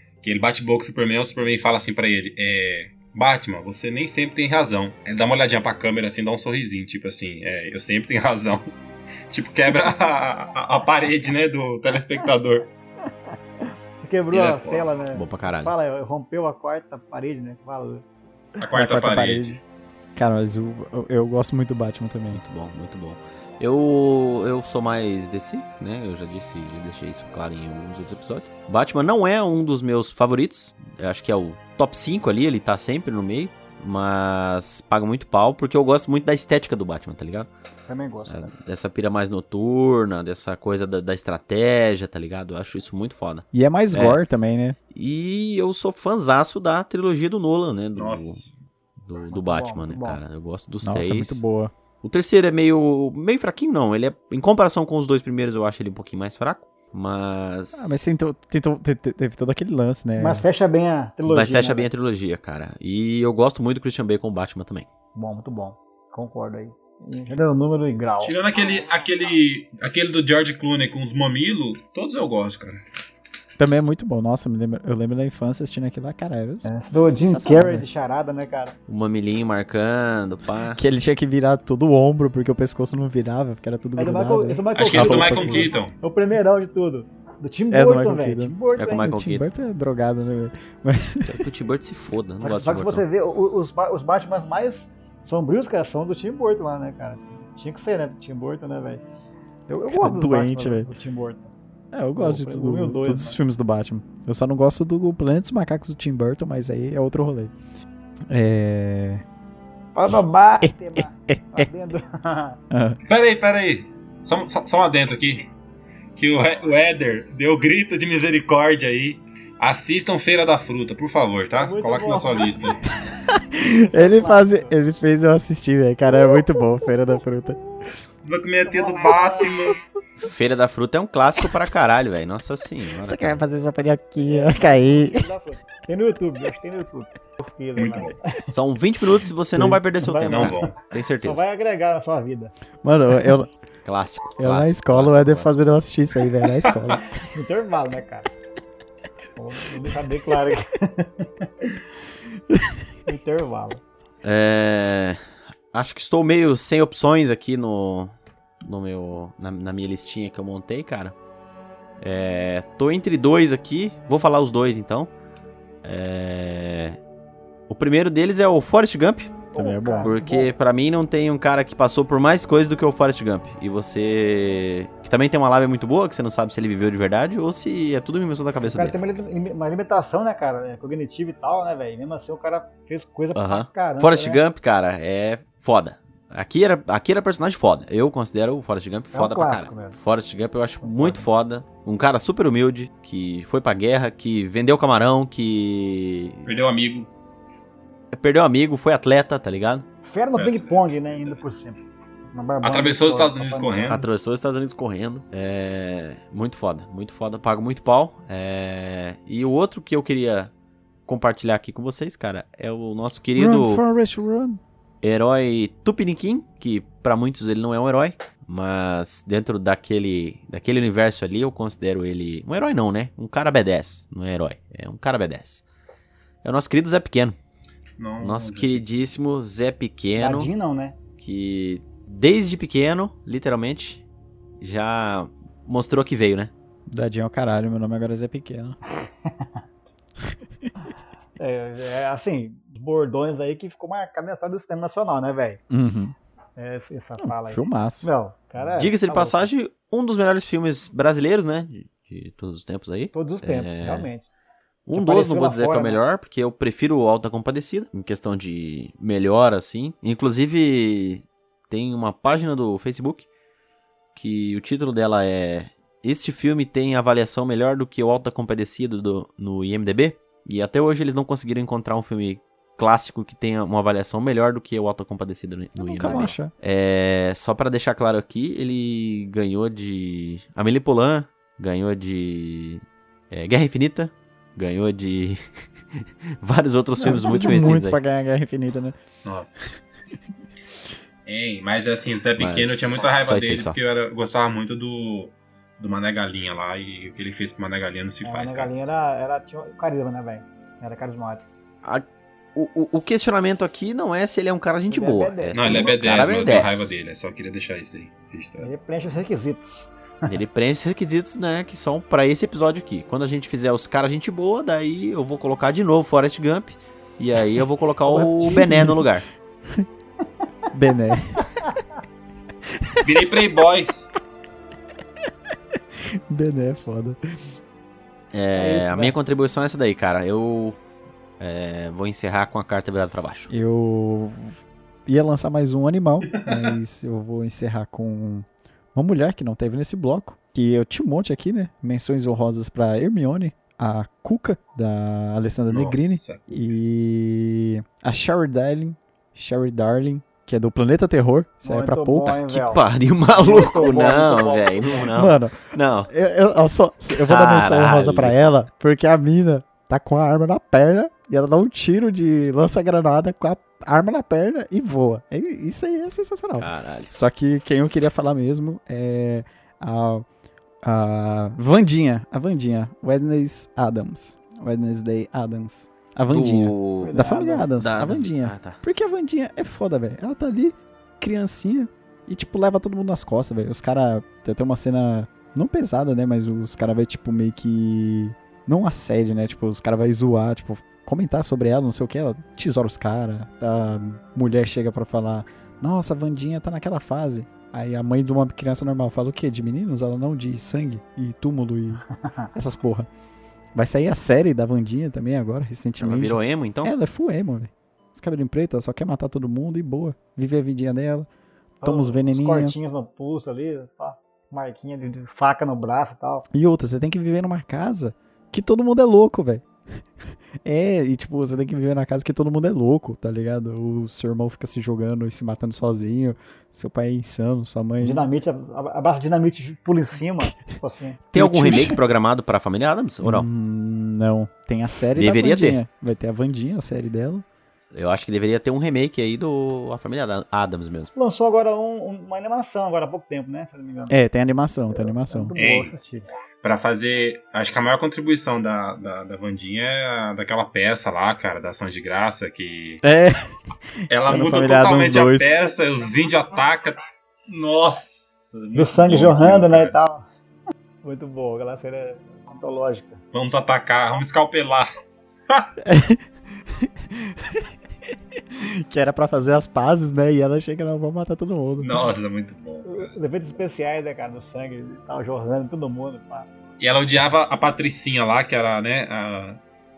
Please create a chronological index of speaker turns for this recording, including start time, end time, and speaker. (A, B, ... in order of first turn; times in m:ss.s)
0:00.2-0:08.7 A
0:09.3-0:12.7 A
0:13.6-0:18.0 B
0:14.3-0:14.9 A
0:15.1-0:15.7 C
0:18.6-0:19.6 A
0:18.6-0:19.6 D
0:20.2-0:22.4 D
0:22.3-0:37.5 C
0:37.9-0:38.5 B
0:38.3-0:44.2 C
0:43.5-0:44.8 D
0:44.9-0:48.4 C
0:48.0-0:48.5 A
0:49.0-0:51.4 C
0:49.3-0:50.2 B
0:50.8-0:51.7 D
0:52.0-0:58.0 C
0:57.7-1:00.4 D
1:00.2-1:01.9 B
1:01.3-1:04.9 C
1:05.2-1:08.4 B
1:08.2-1:12.8 A
1:13.6-1:17.8 D
1:16.6-1:18.8 B
1:18.9-1:20.8 C
1:20.7-1:25.7 D
1:24.0-1:29.2 B
1:24.7-1:25.9 A
1:27.7-1:31.4 D
1:28.8-1:29.5 C
1:31.3-1:33.0 C
1:32.4-1:39.0 B
1:39.7-1:41.5 B
1:39.9-1:40.9 D
1:41.9-1:47.5 D
1:42.2-1:43.4 B
1:48.3-1:49.2 D
1:50.0-1:52.6 B
1:50.6-1:51.7 D
1:52.7-1:53.0 D
1:53.1-1:55.5 A
1:56.2-2:02.8 A
2:01.5-2:02.8 B
2:03.1-2:07.6 D
2:03.8-2:04.7 B
2:08.2-2:09.8 A
2:10.2-2:13.4 C
2:13.0-2:15.3 D
2:14.2-2:18.5 B
2:17.8-2:18.2 A
2:18.5-2:21.4 C
2:19.5-2:19.8 D
2:20.0-2:22.5 B
2:20.2-2:20.7 A
2:22.8-2:23.5 D
2:23.8-2:25.6 C
2:24.4-2:27.2 D
2:26.6-2:27.0 A
2:27.2-2:28.3 B
2:29.4-2:31.8 B
2:32.5-2:32.8 D
2:33.1-2:33.8 B
2:34.2-2:35.2 C
2:35.7-2:41.2 C
2:42.0-2:45.1 C
2:45.8-2:47.0 C
2:47.7-2:49.4 C
2:49.5-2:50.5 B
2:49.6-2:50.1 D
2:50.0-2:59.0 C
2:58.6-3:04.4 B
3:03.4-3:16.5 C
3:09.1-3:10.0 B
3:10.8-3:11.2 B
3:16.5-3:17.1 A
3:18.1-3:19.9 C
3:20.0-3:21.8 B
3:20.3-3:21.4 A
3:22.3-3:24.0 B
3:22.6-3:24.0 A
3:23.9-3:30.5 C
3:31.1-3:33.8 C
3:33.4-3:34.6 D
3:35.0-3:45.6 C
3:46.4-3:47.4 C
3:48.0-3:48.8 A
3:48.2-3:50.5 C
3:50.2-3:51.0 B
3:51.2-3:54.0 C
3:54.6-3:56.5 C
3:56.9-3:58.8 D
4:00.3-4:00.7 D
4:01.4-4:05.6 B
4:05.7-4:06.1 D
4:06.6-4:09.5 B
4:07.2-4:08.1 D
4:08.8-4:14.1 C
4:13.1-4:14.3 B
4:14.9-4:23.3 C
4:14.9-4:16.0 B
4:24.1-4:48.0 C
4:35.8-4:36.5 D
4:47.0-4:49.0 D
4:49.2-4:49.9 A
4:51.3-4:58.7 A
4:52.4-4:53.8 C
4:58.2-5:01.5 B
5:01.8-5:06.9 C
5:04.9-5:06.5 B
5:05.5-5:08.7 A
5:08.6-5:10.4 B
5:10.3-5:19.3 C
5:18.1-5:19.1 D
5:20.7-5:21.5 D
5:22.8-5:23.0 D
5:23.0-5:23.9 A
5:26.0-5:27.2 D
5:28.3-5:30.8 C
5:28.5-5:29.2 B
5:31.4-5:33.5 C
5:33.5-5:52.6 D
5:36.3-5:36.7 A
5:45.7-5:46.7 A
5:51.6-5:52.8 B
5:52.6-5:56.1 C
5:53.4-5:55.1 B
5:55.2-6:10.2 D
5:57.3-5:58.4 C
6:06.6-6:07.1 C
6:10.8-6:43.1 D
6:16.3-6:17.2 C
6:17.0-6:17.8 B
6:17.8-6:18.8 C
6:43.8-6:51.3 D
6:46.0-6:46.9 C
6:51.8-6:56.5 B
6:51.8-6:52.7 D
6:56.5-6:59.6 D
7:00.6-7:08.3 D
7:08.0-7:11.3 B
7:11.3-7:13.5 C
7:11.3-7:12.0 D
7:13.2-7:17.4 D
7:15.2-7:15.8 C
7:17.9-7:21.1 C
7:21.2-7:24.2 B
7:24.1-7:25.5 D
7:24.9-7:26.3 B
7:25.6-7:25.9 A
7:26.6-7:33.0 A
7:33.0-7:35.5 D
7:34.1-7:39.9 A
7:38.8-7:40.3 B
7:41.0-7:43.2 B
7:43.3-7:44.9 A
7:45.8-7:46.2 D
7:46.8-7:47.7 D
7:48.5-7:51.9 D
7:51.8-7:53.1 A
7:52.9-7:56.5 B
7:56.8-7:59.6 A